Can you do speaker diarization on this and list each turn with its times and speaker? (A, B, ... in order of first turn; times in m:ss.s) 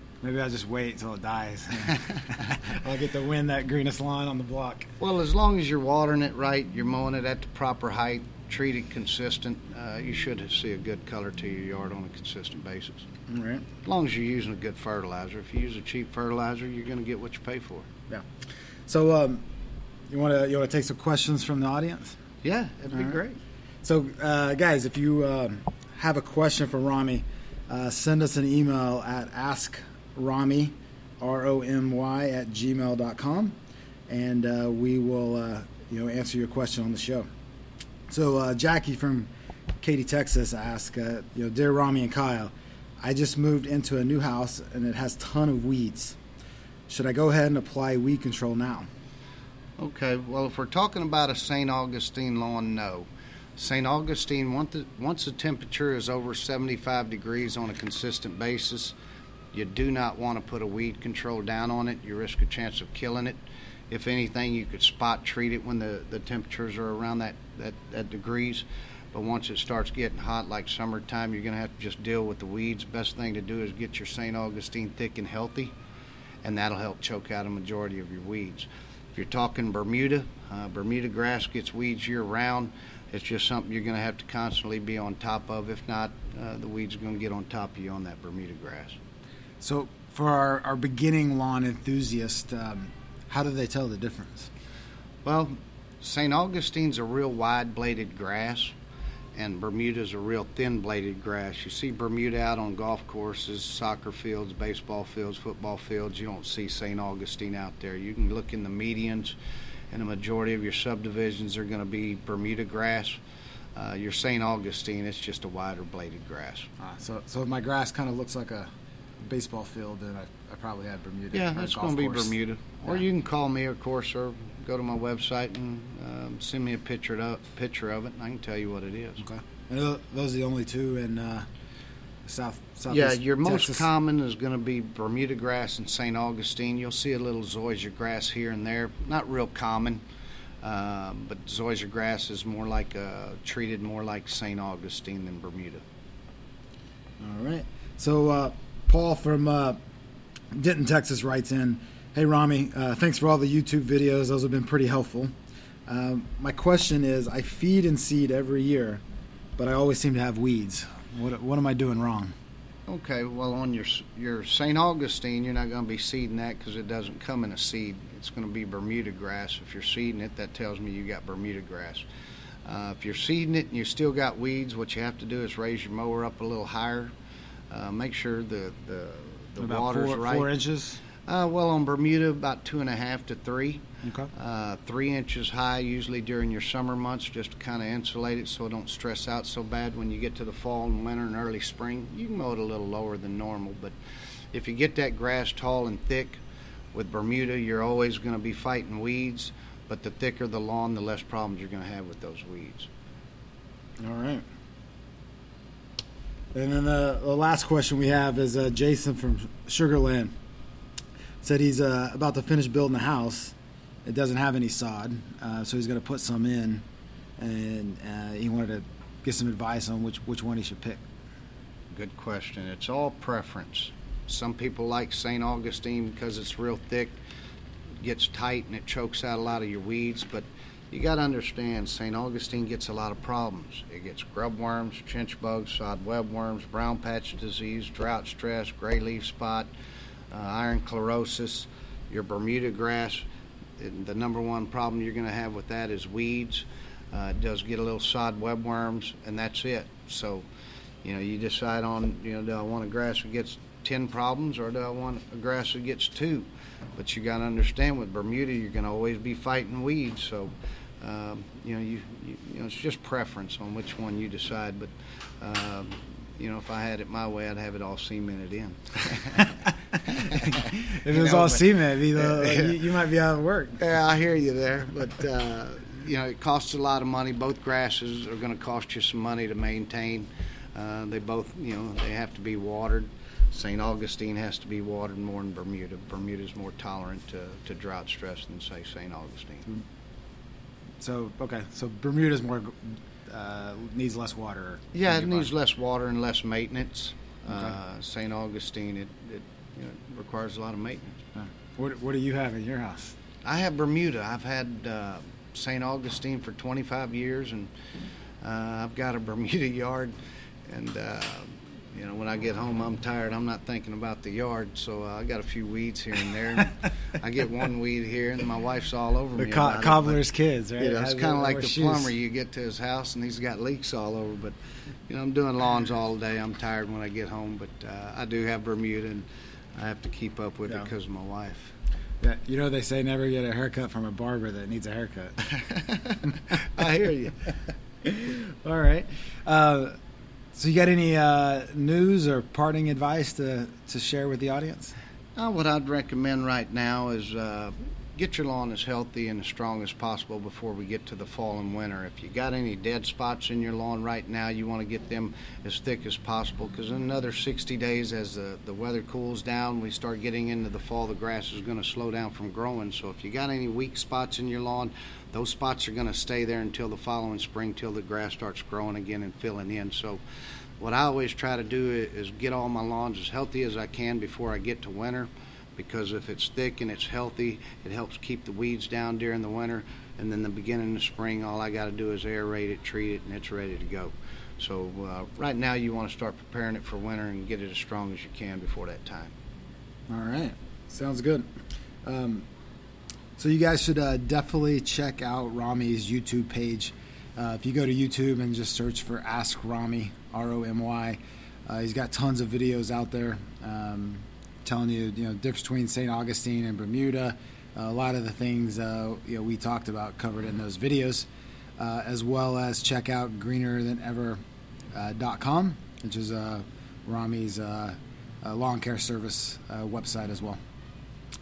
0:00.2-0:04.9 A
0:05.0-0:13.1 B
0:13.3-0:13.6 A
0:13.8-0:17.9 B
0:18.9-0:19.4 A
0:20.1-0:22.2 A
0:22.4-0:23.4 B
0:23.8-0:33.6 A
0:34.1-0:37.3 A
0:38.1-0:39.3 A
0:39.8-0:46.2 A
0:46.9-0:48.9 A
0:49.8-0:59.0 B
0:59.5-1:15.7 B
1:16.4-1:29.0 B
1:29.6-1:34.5 A
1:35.2-1:38.7 B
1:39.3-1:49.4 B
1:49.9-1:53.2 B
1:53.8-1:56.7 B
1:56.8-1:58.7 A
1:59.2-2:02.3 A
2:01.3-2:09.2 B
2:09.2-2:11.4 A
2:12.2-2:13.9 A
2:12.9-2:20.0 B
2:20.6-2:25.8 B
2:27.2-2:29.8 A
2:30.5-2:35.3 A
2:35.9-2:39.0 A
2:39.6-2:42.3 A
2:42.9-2:52.0 B
2:52.6-2:57.1 B
2:57.7-3:00.5 B
2:59.6-3:01.0 A
3:01.2-3:14.0 B
3:04.0-3:04.3 A
3:14.5-3:16.4 B
3:16.9-3:22.9 B
3:24.0-3:24.4 A
3:26.5-3:30.3 A
3:31.4-3:36.8 A
3:37.4-3:41.0 A
3:41.9-3:47.2 B
3:48.0-3:59.7 B
4:00.3-4:03.2 B
4:03.8-4:10.5 B
4:11.0-4:29.5 B
4:30.0-4:32.8 B
4:30.9-4:33.8 A
4:33.8-4:49.6 B
4:51.0-4:55.5 A
4:54.9-5:01.2 B
5:01.3-5:03.1 A
5:03.4-5:07.7 B
5:08.4-5:10.1 B
5:10.7-5:20.2 B
5:19.4-5:22.1 A
5:20.8-5:24.5 B
5:25.1-5:31.7 B
5:32.2-5:35.4 A
5:35.6-5:37.5 B
5:38.0-5:40.0 A
5:40.5-5:44.9 A
5:45.4-6:10.2 B
6:10.8-6:29.3 B
6:30.1-6:31.5 A
6:32.0-6:32.4 A
6:33.4-6:51.3 A
6:51.8-6:54.4 A
6:54.9-7:00.6 A